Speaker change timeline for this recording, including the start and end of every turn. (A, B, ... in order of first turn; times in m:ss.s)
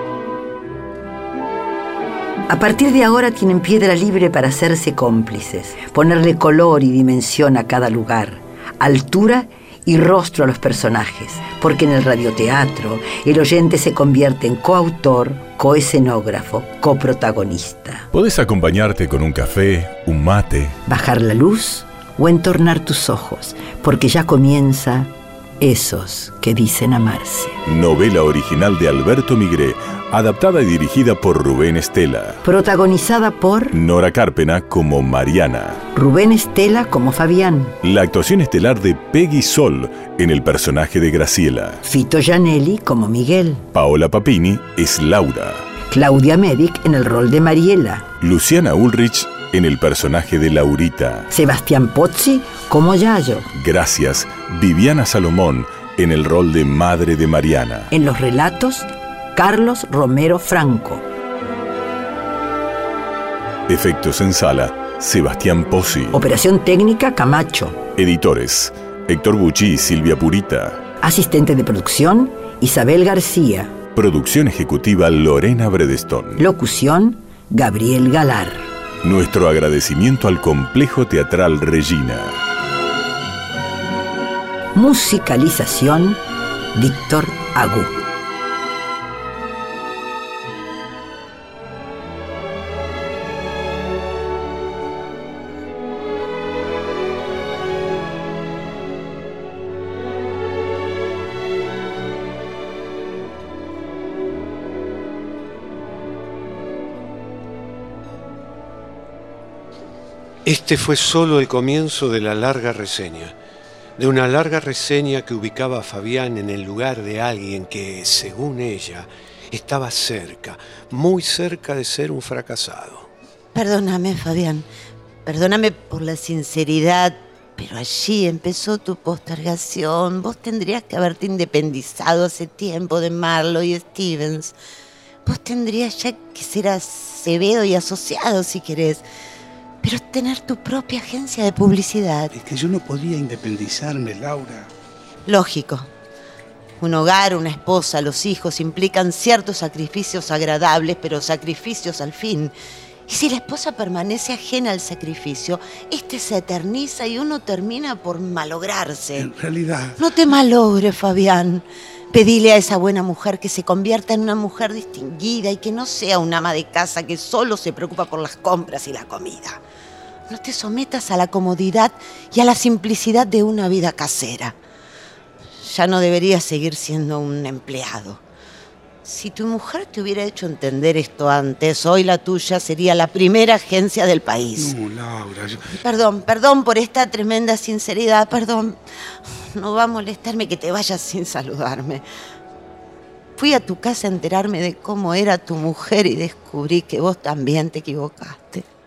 0:02.5-0:18.1 A
0:18.1-0:20.8 B
0:20.9-0:27.6 A
0:27.6-0:32.4 B
0:32.4-0:33.8 A
0:33.7-0:35.8 B
0:35.9-0:37.8 A
0:37.8-0:41.8 B
0:41.8-0:43.6 A
0:43.7-0:45.7 B
0:45.9-0:48.1 A
0:48.2-0:51.3 B
0:51.3-0:53.5 A
0:53.5-0:57.9 B
0:57.9-1:01.0 A
1:03.7-1:06.2 B
1:06.1-1:07.8 A
1:08.0-1:10.8 B
1:11.0-1:13.7 A
1:13.9-1:16.4 B
1:16.4-1:18.7 A
1:19.0-1:22.4 B
1:24.7-1:26.2 A
1:26.7-1:27.9 A
1:50.4-1:53.4 C
1:54.0-2:03.1 C
2:03.5-2:04.7 D
2:05.2-2:14.5 D
2:15.2-2:19.0 D
2:19.8-2:22.3 D
2:22.3-2:24.7 E
2:25.2-2:25.9 D
2:26.8-2:32.5 D
2:33.1-2:39.3 D
2:39.2-2:40.0 E
2:40.0-2:49.6 D
2:50.3-2:54.6 D
2:55.6-2:58.2 D
2:59.0-3:04.8 D
3:04.6-3:05.6 E
3:05.7-3:12.0 D
3:13.4-3:18.6 D